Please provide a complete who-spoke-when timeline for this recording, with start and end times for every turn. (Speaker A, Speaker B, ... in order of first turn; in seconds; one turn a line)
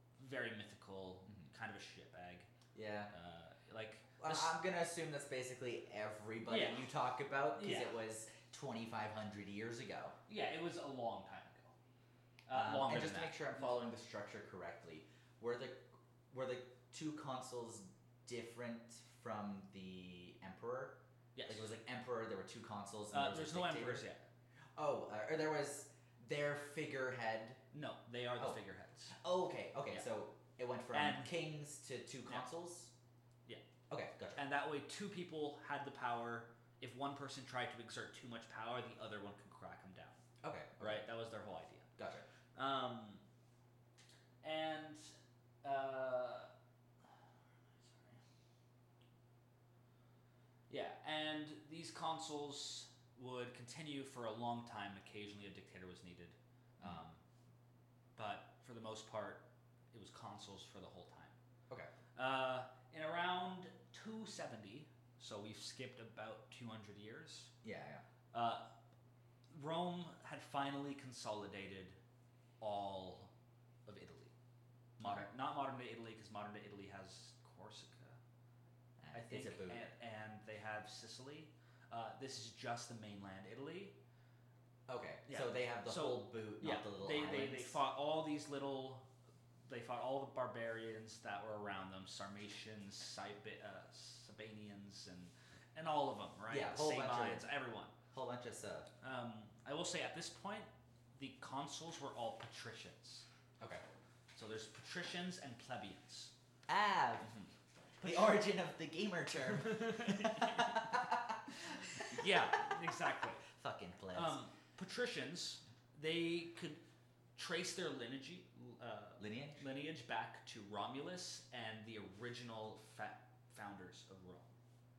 Speaker A: 0.2-2.5
Speaker B: 2.7-3.1
Speaker A: 3.1-4.5
Speaker B: 4.2-10.2
Speaker A: 6.5-6.9
Speaker A: 7.5-8.0
Speaker A: 10.3-11.7
Speaker A: 12.5-13.4
Speaker B: 12.5-24.1
Speaker A: 21.4-21.7
Speaker A: 23.1-24.2
Speaker B: 24.8-27.6
Speaker A: 27.7-29.2
Speaker B: 29.1-32.9
Speaker A: 30.9-31.3
Speaker B: 33.9-34.4
Speaker A: 34.4-40.2
Speaker B: 40.4-41.1
Speaker A: 40.8-41.9
Speaker B: 42.0-42.3
Speaker A: 42.5-43.2
Speaker A: 44.4-46.5
Speaker A: 47.8-48.2
Speaker A: 50.7-57.2
Speaker A: 58.2-61.4
Speaker A: 62.1-67.5
Speaker B: 67.6-68.0
Speaker A: 68.3-68.7
Speaker A: 69.5-72.0
Speaker A: 72.6-73.3
Speaker A: 73.9-74.3
Speaker A: 75.0-78.2
Speaker B: 75.0-75.3
Speaker B: 79.0-79.9
Speaker A: 79.1-84.0
Speaker B: 84.9-87.8
Speaker A: 85.3-89.1
Speaker A: 89.7-97.9
Speaker B: 96.5-97.5
Speaker B: 98.1-98.9
Speaker A: 99.0-103.3
Speaker A: 104.3-106.3
Speaker B: 106.7-107.3
Speaker A: 107.2-107.5
Speaker B: 108.0-112.7
Speaker A: 109.6-110.8
Speaker A: 112.1-113.5
Speaker B: 113.5-114.4
Speaker A: 114.1-116.8
Speaker A: 117.4-124.5
Speaker B: 119.2-119.6